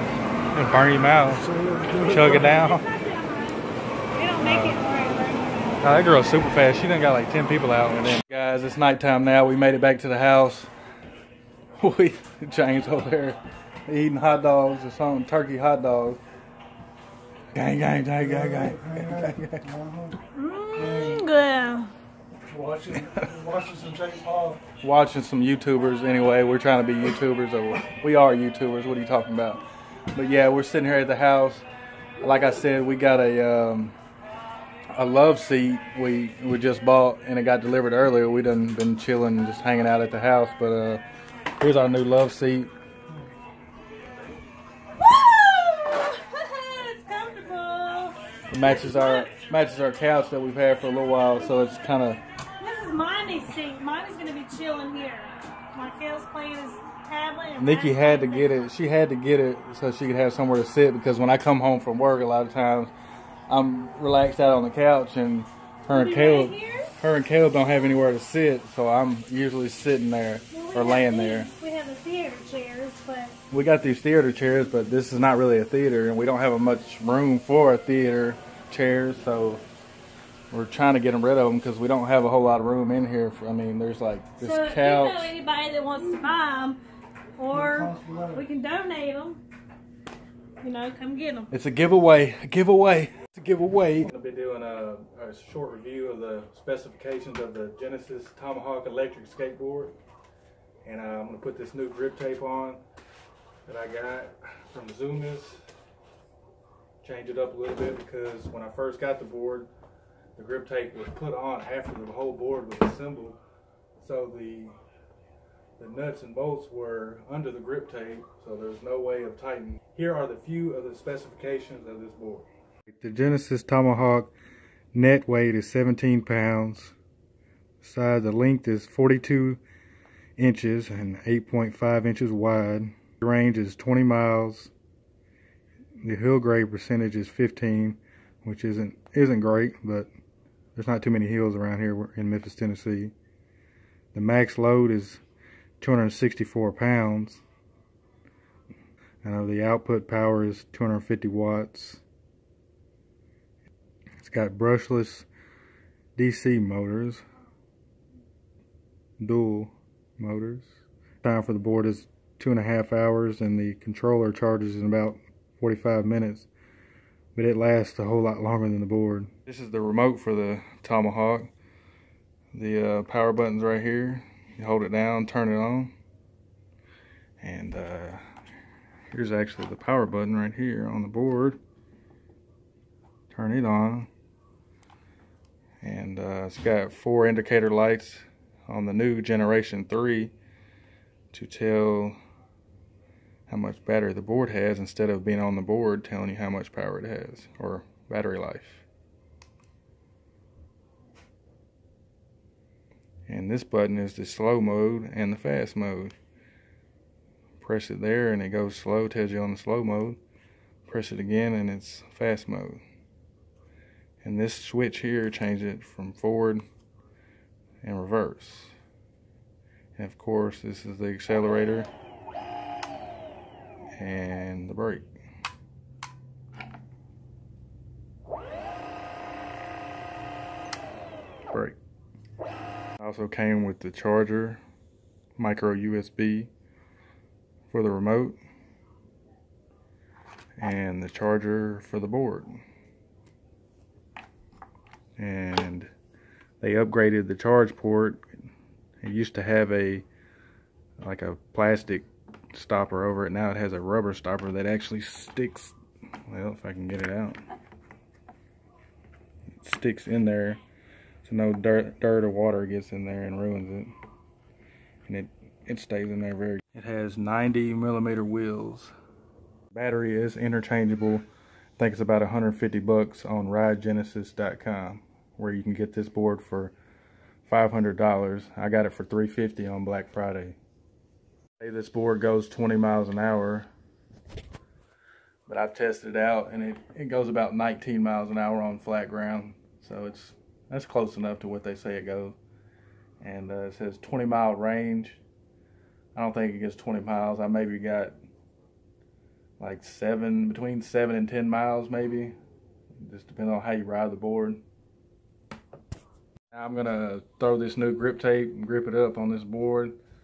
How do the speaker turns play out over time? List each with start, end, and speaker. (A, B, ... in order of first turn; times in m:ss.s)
0:00.5-0:02.9 A
0:01.5-0:02.3 B
0:02.5-0:05.8 C
0:04.4-0:04.8 A
0:05.8-0:10.7 A
0:11.8-0:16.2 A
0:17.5-0:19.7 A
0:18.6-0:19.1 B
0:19.8-0:20.1 B
0:20.3-0:21.9 C
0:20.8-0:21.2 B
0:22.5-0:24.6 B
0:22.9-0:23.4 A
0:24.7-0:29.6 A
0:30.1-0:31.7 A
0:32.2-0:34.0 A
0:34.9-0:41.0 A
0:41.6-0:42.7 A
0:45.0-0:49.3 C
0:48.5-0:52.2 A
0:52.6-0:58.7 C
0:57.6-1:02.9 A
1:03.5-1:11.5 A
1:05.9-1:06.9 C
1:10.5-1:13.4 C
1:13.5-1:19.6 A
1:20.5-1:25.3 A
1:24.4-1:26.8 C
1:27.4-1:29.4 C
1:27.9-1:28.4 B
1:30.6-1:31.5 C
1:31.5-1:40.0 A
1:40.8-1:42.8 A
1:43.7-1:45.6 A
1:47.0-1:49.7 A
1:50.4-1:53.4 A
1:54.0-1:54.8 A
1:55.8-2:04.3 A
2:04.9-2:07.0 A
2:07.8-2:09.6 A
2:10.4-2:14.7 A
2:16.0-2:20.1 A
2:20.8-2:23.1 A
2:24.1-2:25.2 A
2:25.8-2:27.4 A
2:29.2-2:32.0 A
2:34.2-2:35.3 A
2:36.2-2:37.2 A
2:39.2-2:46.5 A
2:47.4-2:51.5 A
2:52.5-2:55.9 A
2:57.4-2:58.2 A
2:59.1-3:01.6 A
3:03.3-3:04.1 A
3:05.8-3:10.3 A
3:11.3-3:12.2 A
3:13.5-3:18.8 A
3:23.3-3:26.1 A
3:27.6-3:30.2 A
3:30.8-3:32.8 A
3:34.2-3:36.6 A
3:37.8-3:38.8 A
3:40.0-3:41.9 A
3:44.0-3:45.1 A
3:51.5-3:51.8 A
3:53.0-3:54.6 A
3:55.4-3:56.5 A
3:57.7-3:58.4 A
4:00.6-4:02.6 A
4:05.2-4:05.9 A
4:06.6-4:08.3 A
4:09.0-4:10.1 A
4:11.0-4:15.8 A
4:16.3-4:17.4 A
4:19.6-4:20.6 A
4:21.2-4:23.9 A
4:25.1-4:28.9 A
4:29.7-4:31.3 A
4:31.8-4:36.8 A
4:37.4-4:40.6 A
4:41.6-4:43.7 A
4:45.5-4:52.4 A
4:53.2-4:55.2 A
4:56.2-4:58.2 A
4:59.6-5:02.4 A
5:03.0-5:04.6 A
5:06.5-5:10.0 A